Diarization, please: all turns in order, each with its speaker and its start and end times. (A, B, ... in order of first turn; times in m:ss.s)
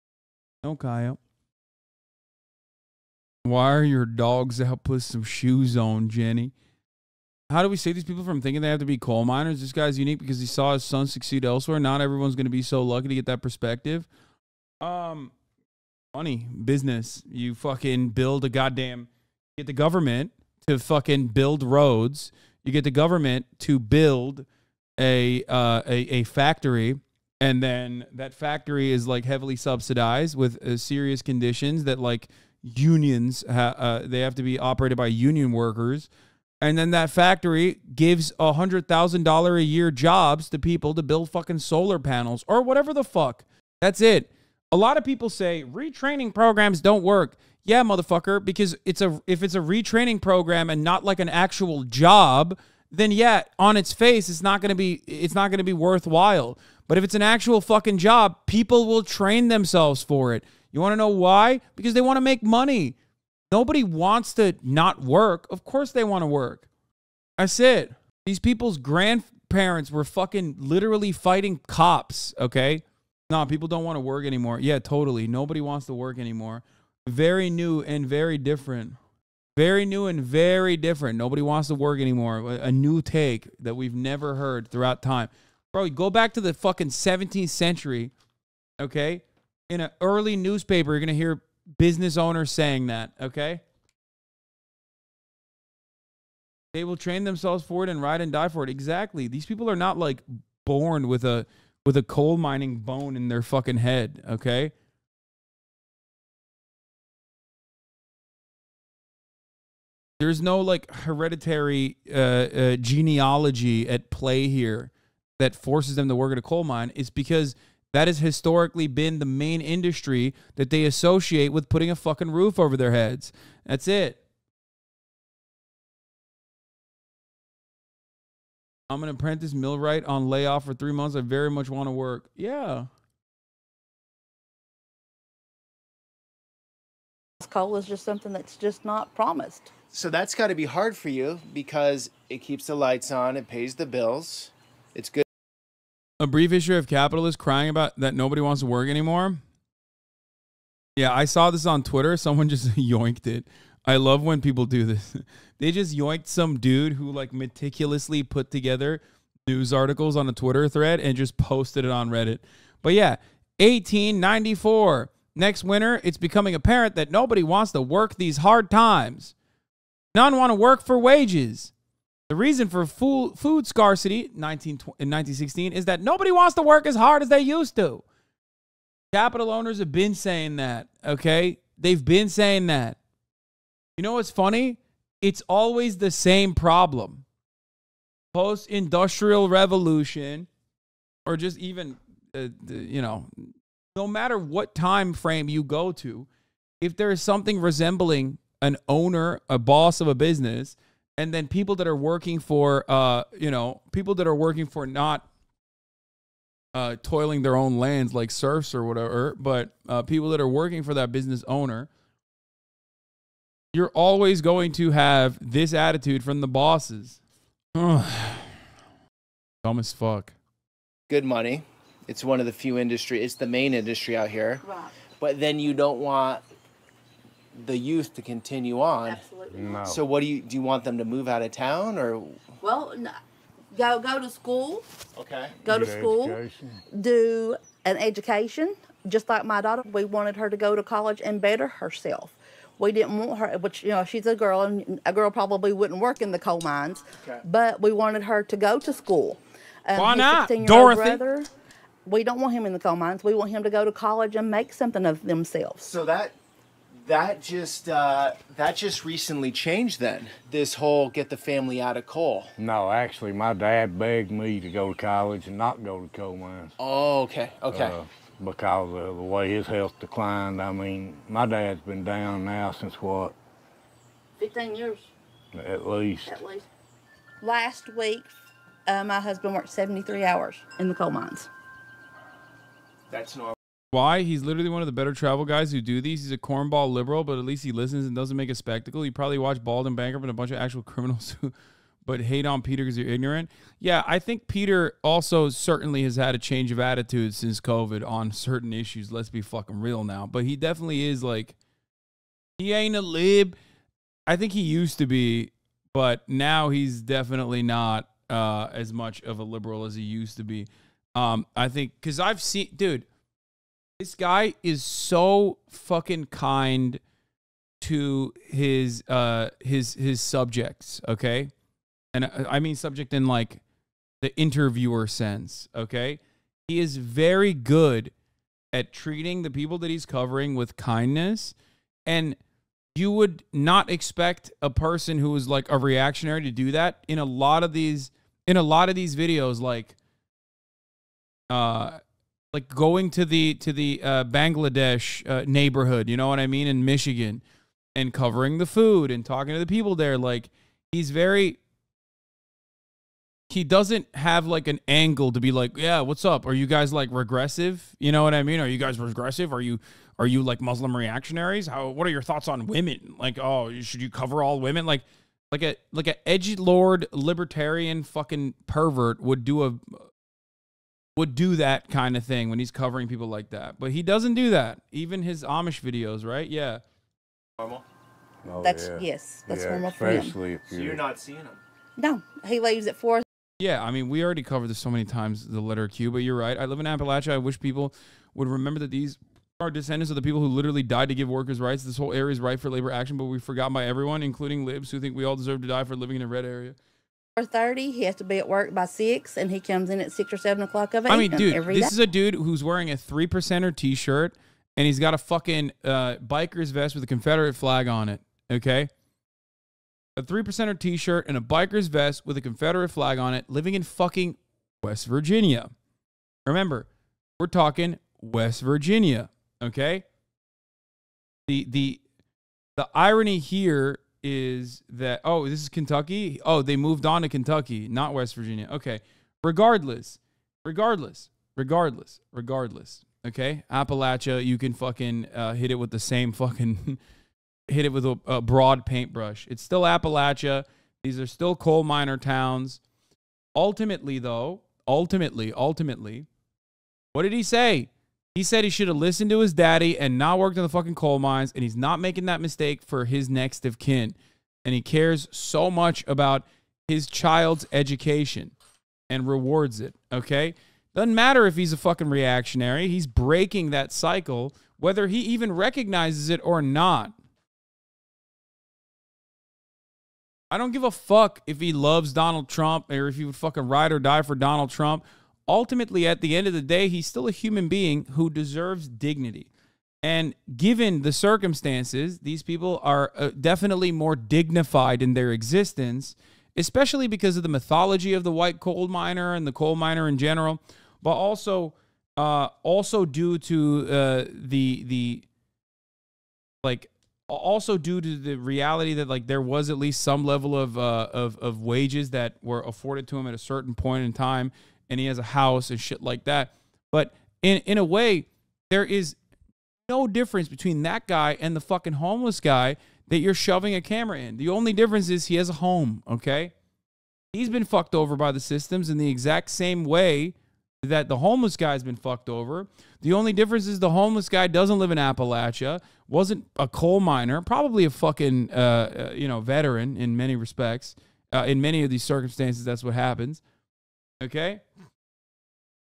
0:00.6-0:01.2 A
0:03.4-0:06.5 A
0:07.5-0:14.1 A
0:14.8-0:15.3 A
0:16.1-0:24.5 A
0:25.0-0:36.1 A
0:36.6-1:02.9 A
1:03.5-1:06.7 A
1:07.4-1:19.0 A
1:19.6-1:28.1 A
1:28.8-1:33.6 A
1:36.7-1:44.7 A
1:50.2-2:04.2 A
2:08.9-2:12.9 A
2:17.4-2:19.7 B
2:19.9-2:25.2 C
2:26.2-2:29.4 A
2:31.0-2:49.3 A
2:50.1-2:51.7 A
2:52.3-2:58.0 A
2:59.1-3:03.0 A
3:04.0-3:07.2 A
3:08.3-3:10.5 A
3:11.2-3:16.3 A
3:16.8-3:25.3 A
3:26.7-3:31.9 A
3:33.7-3:37.2 A
3:37.7-3:38.6 A
3:39.6-3:40.3 A
3:41.1-3:44.6 C
3:44.6-3:44.9 B
3:45.2-3:46.4 C
3:47.5-3:49.2 C
3:49.0-3:49.9 B
3:49.5-3:50.0 D
3:49.8-3:52.4 C
3:52.6-3:53.2 B
3:53.7-3:54.8 B
3:55.2-3:55.6 C
3:55.6-3:56.4 B
3:55.6-3:56.8 D
3:56.9-4:11.5 B
4:09.9-4:11.2 A
4:12.0-4:15.8 B
4:15.8-4:16.3 C
4:16.9-4:22.5 C
4:22.6-4:26.8 D
4:26.8-4:28.0 C
4:27.7-4:33.3 D
4:34.4-4:35.1 B
4:35.5-4:36.4 D
4:36.3-4:36.6 B
4:37.4-4:38.3 B
4:38.9-4:41.5 B
4:43.1-4:43.6 C
4:43.9-4:51.5 A
4:52.0-5:01.5 A
5:02.6-5:03.6 A
5:04.3-5:13.0 A
5:14.0-5:17.0 A
5:17.8-5:21.5 A
5:22.1-5:23.6 A
5:24.2-5:28.1 A
5:28.7-5:31.6 A
5:32.1-5:32.4 A
5:32.9-5:39.9 A
5:41.5-5:42.0 A
5:42.5-5:47.4 A
5:47.9-5:51.6 A
5:53.5-6:10.1 A
6:11.2-6:16.8 A
6:17.6-6:17.8 C
6:18.4-6:21.0 D
6:18.6-6:20.3 B
6:20.7-6:21.6 C
6:22.0-6:23.2 B
6:23.6-6:36.8 A
6:37.4-6:41.9 B
6:41.1-6:48.9 A
6:50.2-6:55.7 A
6:56.4-6:56.9 A
6:57.4-7:00.0 A
7:01.5-7:02.0 A
7:02.8-7:17.0 A
7:17.7-7:22.8 A
7:23.5-7:26.3 A
7:27.1-7:38.5 A
7:39.1-7:47.1 A
7:50.5-7:59.5 A
8:00.0-8:15.2 A
8:16.6-8:29.2 A
8:29.9-8:36.5 A
8:37.3-8:53.4 A
8:54.2-8:54.6 A